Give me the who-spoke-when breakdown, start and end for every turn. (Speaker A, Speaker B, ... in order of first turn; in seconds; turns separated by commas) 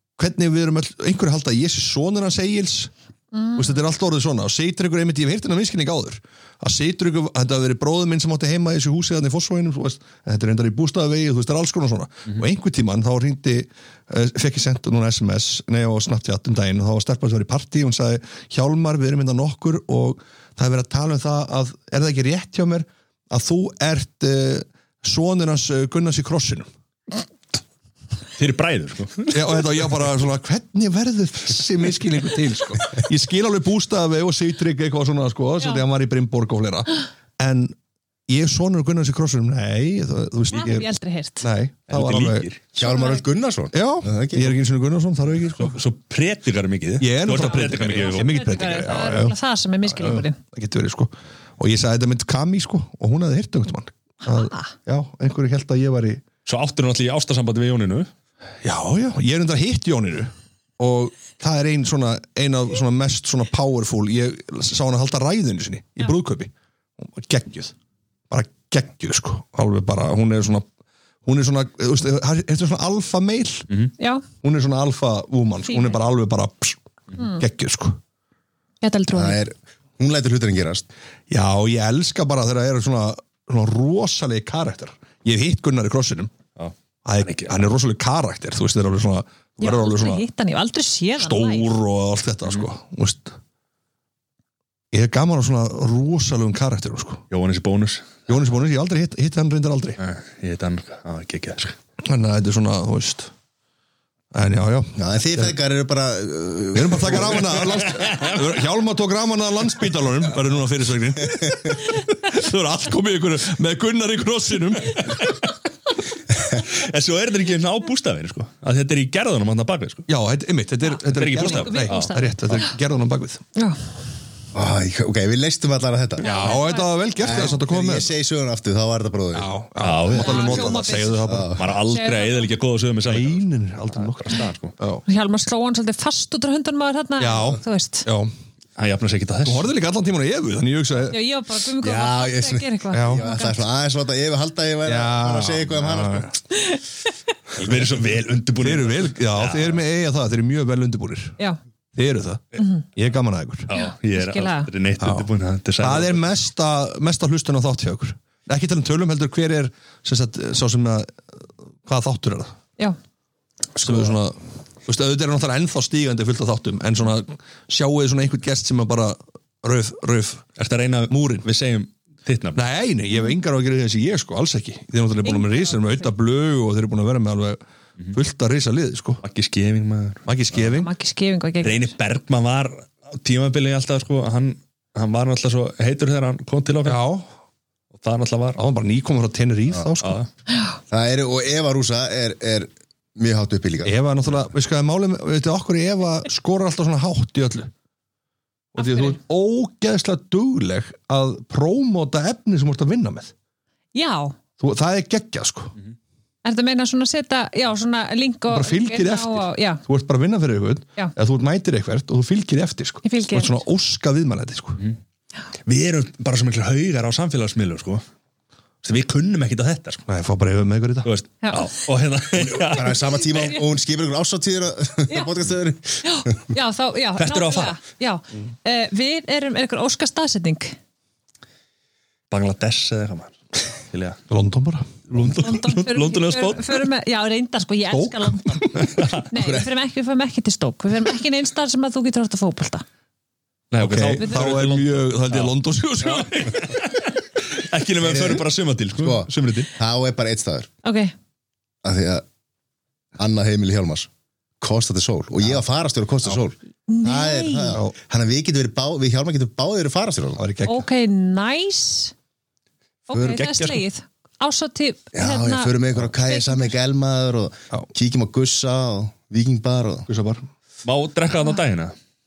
Speaker A: 0.2-2.9, Speaker B: 3.3-3.8, Speaker A: 3.5-26.7, Speaker C: 28.4-29.6, Speaker A: 29.3-37.7, Speaker A: 38.3-40.9, Speaker B: 40.5-41.5, Speaker A: 41.4-42.5, Speaker C: 41.9-42.6, Speaker D: 42.7-44.6, Speaker B: 42.8-43.2, Speaker A: 43.7-45.8, Speaker C: 45.5-48.7, Speaker A: 47.0-49.4, Speaker B: 47.4-50.4, Speaker A: 49.9-56.2, Speaker B: 54.2-54.7, Speaker C: 56.5-58.1, Speaker A: 58.6-67.7, Speaker A: 68.3-70.7, Speaker A: 71.2-73.7, Speaker B: 74.0-74.2, Speaker A: 74.4-78.0, Speaker B: 75.7-76.0, Speaker B: 77.2-77.4, Speaker B: 78.8-79.4, Speaker D: 79.1-80.9, Speaker A: 81.3-86.3, Speaker C: 86.6-87.7, Speaker A: 87.0-90.2, Speaker B: 89.6-91.7, Speaker A: 91.2-93.3, Speaker A: 94.9-97.2, Speaker C: 97.3-98.2, Speaker A: 98.3-100.0, Speaker C: 100.0-101.8, Speaker A: 102.0-103.3, Speaker A: 104.3-105.5, Speaker D: 105.0-107.9, Speaker A: 106.7-115.3, Speaker C: 107.6-108.5, Speaker C: 115.0-115.3, Speaker C: 116.5-120.1, Speaker A: 120.1-123.4, Speaker B: 120.8-122.6, Speaker C: 121.0-122.1, Speaker D: 124.5-126.3, Speaker B: 126.2-127.4, Speaker A: 126.2-128.1, Speaker D: 127.2-129.5, Speaker A: 129.3-131.6, Speaker C: 129.8-130.8, Speaker B: 130.1-132.5, Speaker D: 131.2-131.6, Speaker C: 131.5-134.7, Speaker A: 133.1-135.0, Speaker B: 135.1-138.1, Speaker A: 137.2-138.3, Speaker C: 138.8-139.7, Speaker A: 139.4-141.2, Speaker B: 141.1-143.6, Speaker D: 141.8-146.3, Speaker A: 142.9-143.2, Speaker A: 144.8-146.3, Speaker B: 146.5-146.8, Speaker C: 147.6-149.8, Speaker A: 147.6-147.9, Speaker A: 148.6-151.4, Speaker A: 151.9-153.7, Speaker B: 152.6-152.8, Speaker C: 153.7-156.2, Speaker B: 153.7-154.7, Speaker A: 155.0-155.3, Speaker A: 155.8-161.3, Speaker A: 161.8-162.5, Speaker D: 163.7-164.2, Speaker A: 163.8-170.4, Speaker C: 170.6-172.6, Speaker A: 171.1-171.4, Speaker A: 172.6-177.6, Speaker B: 175.2-176.1, Speaker A: 178.1-179.2, Speaker C: 179.2-180.6, Speaker A: 180.2-180.9, Speaker B: 180.7-181.9, Speaker C: 181.6-187.0, Speaker A: 186.8-187.3, Speaker C: 187.9-188.6, Speaker A: 188.6-190.2, Speaker C: 190.0-190.3, Speaker D: 190.9-193.9, Speaker A: 193.8-197.7, Speaker A: 198.7-203.3, Speaker B: 198.8-199.2, Speaker B: 203.9-204.3, Speaker A: 204.6-205.7, Speaker B: 206.4-209.8, Speaker A: 208.5-214.8, Speaker B: 213.0-213.6, Speaker C: 215.7-218.0, Speaker C: 218.8-220.0, Speaker A: 220.1-221.1, Speaker C: 221.0-223.6, Speaker B: 221.4-221.7, Speaker D: 222.3-226.4, Speaker B: 226.0-230.8, Speaker C: 227.2-227.8, Speaker C: 232.3-234.2, Speaker A: 234.3-235.3, Speaker C: 235.1-236.8, Speaker B: 235.2-242.8, Speaker A: 237.9-239.1, Speaker C: 238.9-239.2, Speaker D: 239.4-239.7, Speaker C: 243.7-249.7, Speaker A: 243.8-246.7, Speaker B: 244.2-244.5, Speaker D: 248.0-250.7, Speaker B: 250.8-251.1, Speaker D: 251.8-252.2, Speaker D: 253.2-254.1, Speaker D: 254.6-260.4, Speaker B: 256.9-257.8, Speaker A: 260.4-260.9, Speaker B: 260.6-262.1, Speaker B: 263.1-266.7, Speaker D: 263.2-263.4, Speaker D: 265.1-270.1, Speaker A: 270.1-270.4, Speaker C: 270.8-271.9